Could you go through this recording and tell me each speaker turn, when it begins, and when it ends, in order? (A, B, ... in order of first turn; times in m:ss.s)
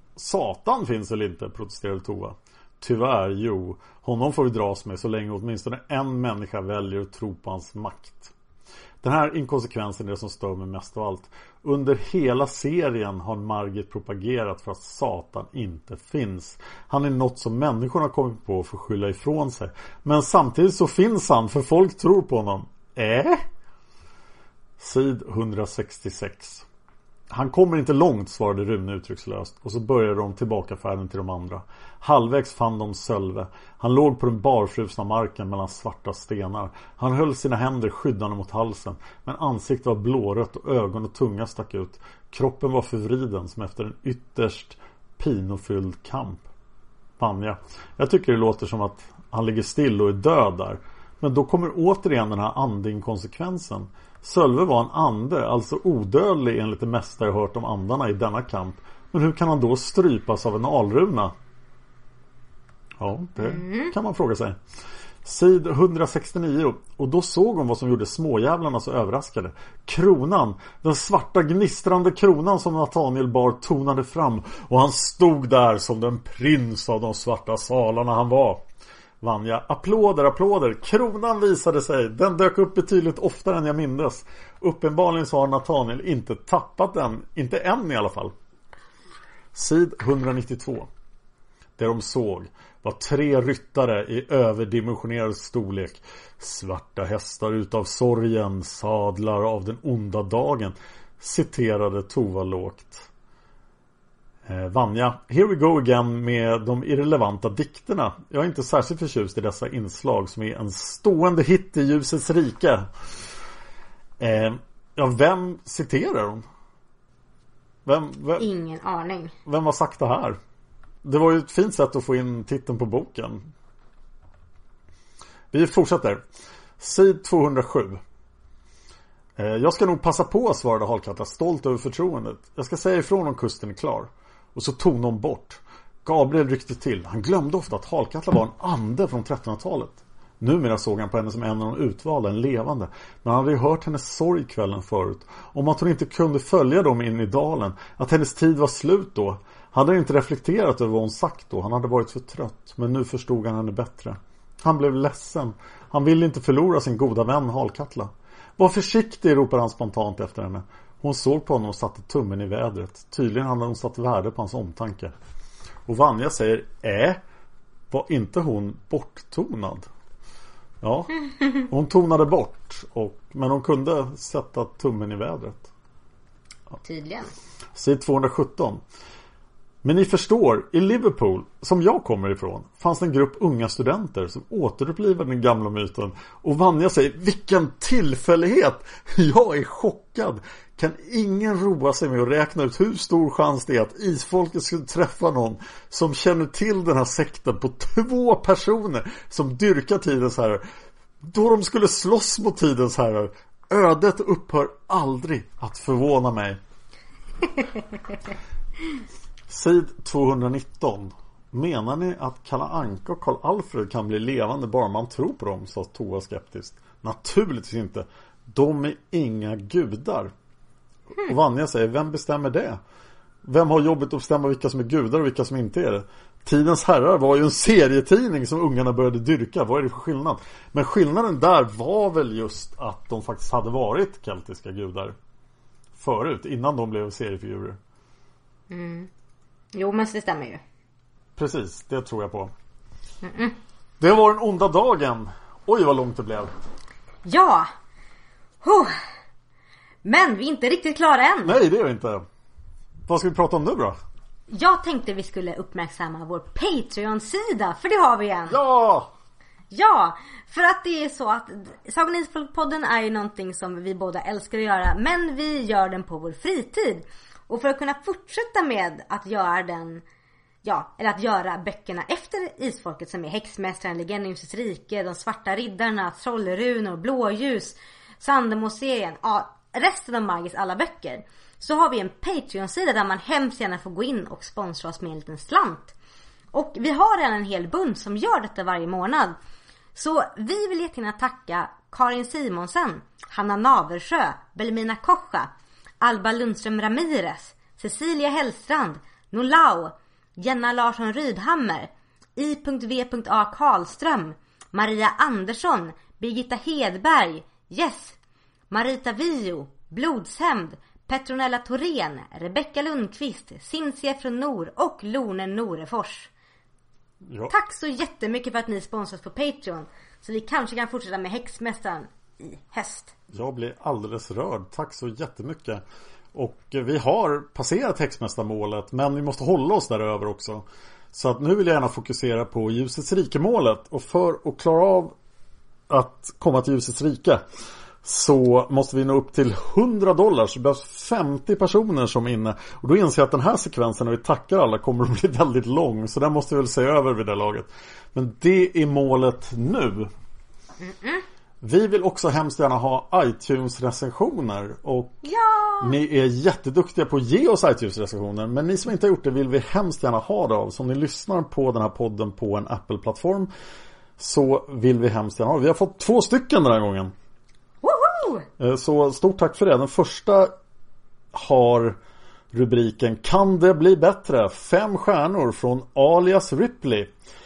0:00.2-0:08.3 A
0:09.0-0:23.4 A
0:24.8-0:26.7 A
0:27.3-0:46.5 A
0:47.2-1:01.3 A
1:03.0-1:04.6 A
1:03.4-1:03.9 B
1:05.2-1:18.6 A
1:19.2-1:28.3 A
1:29.5-1:30.9 A
1:31.8-1:43.1 A
1:44.5-1:52.9 A
1:54.2-1:56.5 A
1:57.9-1:58.5 A
1:58.4-1:59.3 B
1:59.5-2:00.4 A
2:01.0-2:03.5 A
2:05.5-2:06.2 A
2:06.8-2:08.0 A
2:09.4-2:45.1 A
2:45.9-2:47.2 A
2:47.9-2:49.9 A
2:50.8-2:55.7 A
2:56.8-2:57.3 B
2:57.8-2:58.8 A
2:59.8-3:20.6 A
3:21.2-3:26.6 A
3:29.5-3:40.3 A
3:41.2-3:42.8 A
3:43.4-3:55.2 A
3:56.0-3:57.8 A
3:58.7-3:59.1 B
3:59.7-4:00.6 B
4:01.4-4:02.5 A
4:03.2-4:03.6 B
4:04.0-4:06.5 A
4:07.2-4:07.7 B
4:08.6-4:08.9 B
4:10.0-4:11.6 B
4:11.4-4:12.2 A
4:13.1-4:14.0 A
4:14.5-4:18.6 B
4:18.5-4:19.1 A
4:19.7-4:30.0 B
4:30.6-4:45.9 B
4:46.5-4:49.4 B
4:50.0-5:08.2 B
5:08.7-5:16.3 B
5:17.2-5:17.5 A
5:17.5-5:23.1 B
5:23.3-5:25.8 A
5:26.3-5:35.1 A
5:35.9-5:37.4 A
5:38.0-5:50.1 A
5:50.8-5:51.2 B
5:51.6-5:55.2 A
5:55.2-5:56.0 B
5:55.8-6:03.5 A
6:04.2-6:07.1 A
6:07.8-6:08.5 B
6:08.6-6:10.5 A
6:11.3-6:12.0 A
6:12.5-6:17.1 A